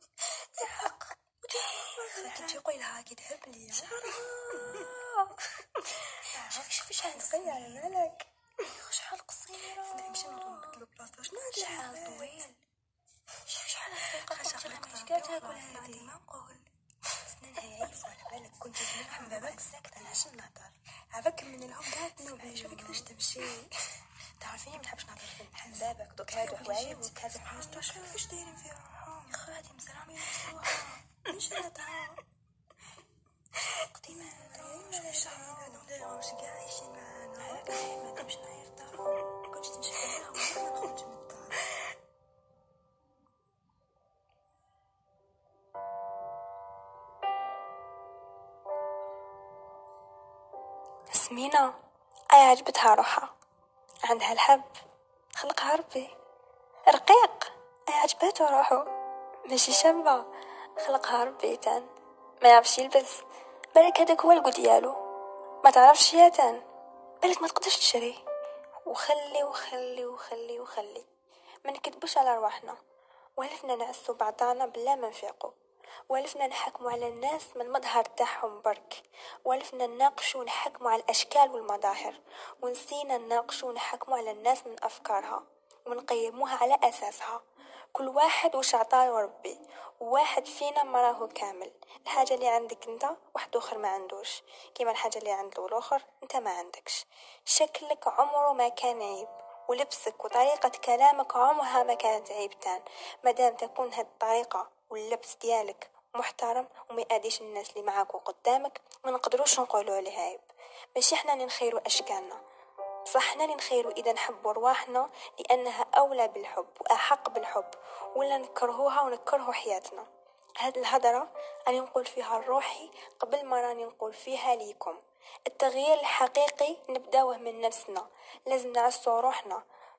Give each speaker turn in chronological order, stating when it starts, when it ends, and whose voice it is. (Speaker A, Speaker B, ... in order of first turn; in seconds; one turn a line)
Speaker A: 0.5-5.0
Speaker B: 0.5-5.4
Speaker B: 6.3-12.5
Speaker A: 6.3-8.2
Speaker A: 9.5-12.5
Speaker A: 13.5-16.6
Speaker B: 13.5-16.1
Speaker A: 17.2-20.5
Speaker B: 17.5-20.7
Speaker A: 21.1-23.7
Speaker B: 21.7-23.6
Speaker A: 24.4-24.9
Speaker B: 24.4-28.4
Speaker A: 25.6-32.2
Speaker B: 30.2-32.0
Speaker A: 33.9-38.3
Speaker B: 33.9-35.9
Speaker B: 37.4-40.7
Speaker A: 38.9-41.7
Speaker B: 51.1-51.7
Speaker B: 52.3-53.3
Speaker B: 54.0-54.7
Speaker B: 55.4-56.1
Speaker B: 56.9-58.9
Speaker B: 59.5-60.2
Speaker B: 60.8-61.9
Speaker B: 62.4-63.2
Speaker B: 63.7-65.0
Speaker B: 65.6-66.6
Speaker B: 67.2-68.2
Speaker B: 68.8-71.1
Speaker B: 71.6-72.8
Speaker B: 73.4-75.5
Speaker B: 76.1-87.4
Speaker B: 87.9-110.4
Speaker B: 110.9-112.4
Speaker B: 113.1-120.0
Speaker B: 120.6-129.6